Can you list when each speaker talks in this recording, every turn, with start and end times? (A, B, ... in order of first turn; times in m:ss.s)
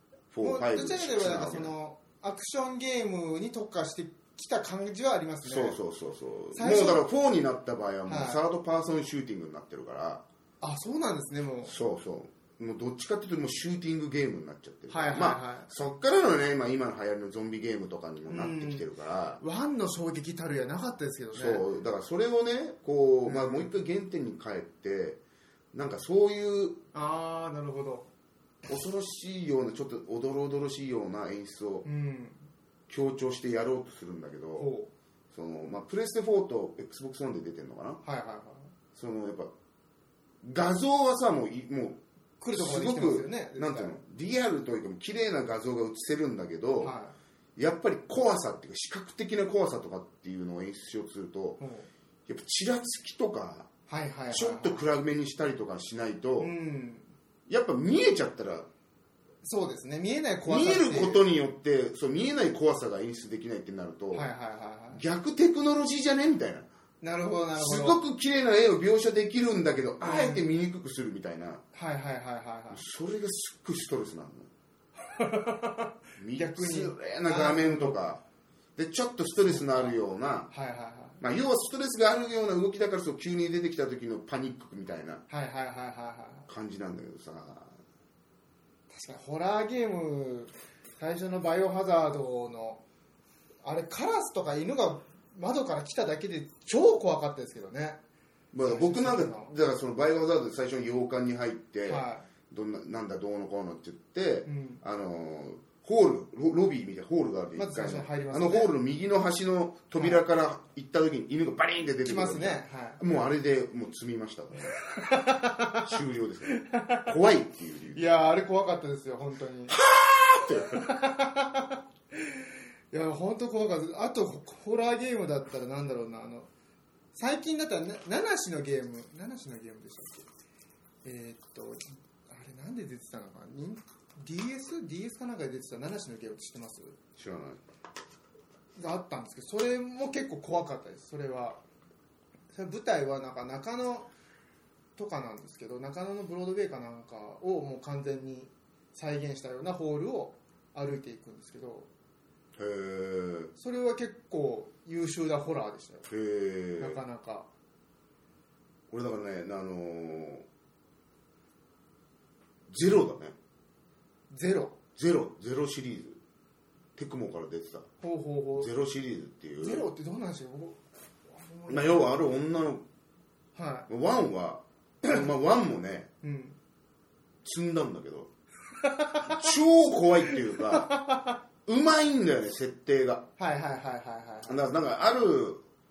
0:00.3-0:01.7 A
0:00.4-0:05.8 B
0:05.4-0:10.2 A
0:06.5-0:07.0 B
0:08.1-0:08.4 B
0:10.6-0:11.7 B
0:11.6-0:19.4 A
0:14.9-0:15.7 B
0:18.3-0:18.8 B
0:19.4-0:21.6 B
0:21.3-0:25.2 A
0:23.2-0:23.7 B
0:25.7-0:26.8 A
0:26.9-0:28.1 B
0:28.7-0:31.8 A
0:31.8-0:32.4 B
0:32.9-0:34.7 A
0:34.6-0:34.9 B
0:35.3-0:38.0 A
0:38.0-0:38.7 B
0:38.9-0:39.5 A
0:40.4-0:42.0 A
0:42.4-0:44.0 B
0:42.5-0:46.9 A
0:46.8-0:47.1 B
0:47.6-0:51.6 A
0:51.6-0:51.9 B
0:52.3-0:53.7 A
0:53.9-0:54.8 B
0:54.3-0:56.5 A
0:56.4-0:57.1 B
0:57.5-0:58.7 A
0:59.4-1:01.2 B
1:00.4-1:04.2 A
1:04.1-1:05.0 B
1:04.9-1:06.7 A
1:07.0-1:08.0 B
1:07.6-1:11.6 A
1:10.0-1:10.4 B
1:11.7-1:12.8 B
1:12.7-1:14.5 A
1:15.1-1:18.0 B
1:16.2-1:18.2 A
1:18.8-1:20.5 A
1:19.4-1:20.0 B
1:20.5-1:21.2 B
1:21.2-1:25.2 A
1:25.3-1:26.5 B
1:26.5-1:27.7 A
1:28.9-1:32.8 B
1:33.6-1:38.0 B
1:38.5-1:54.8 A
1:38.6-1:39.5 B
1:41.8-1:42.2 B
1:44.4-1:44.8 B
1:47.6-1:48.7 B
1:50.0-1:50.2 B
1:52.0-1:53.0 B
1:54.8-1:55.9 B
1:55.8-1:58.0 A
1:56.4-1:57.1 B
1:57.9-1:59.8 B
1:59.7-2:00.9 A
2:00.7-2:06.5 B
2:07.1-2:10.2 B
2:11.0-2:17.0 B
2:17.2-2:17.6 A
2:18.8-2:21.6 B
2:22.5-2:24.1 B
2:25.0-2:31.9 B
2:32.6-2:33.5 A
2:33.6-2:36.1 B
2:36.0-2:37.0 A
2:36.8-2:37.5 B
2:38.9-2:40.4 A
2:42.7-2:43.3 A
2:44.3-2:44.8 B
2:45.0-2:46.2 A
2:47.0-2:47.9 A
2:48.0-2:48.7 B
2:48.6-2:49.9 A
2:49.6-2:52.3 B
2:51.7-2:52.8 A
2:53.6-2:53.9 B
2:53.9-2:56.1 A
2:56.2-2:56.6 B
2:57.4-2:58.3 A
2:58.8-2:59.5 B
2:59.2-3:01.0 A
3:00.3-3:01.4 B
3:01.6-3:03.3 A
3:03.4-3:04.6 B
3:04.4-3:05.6 A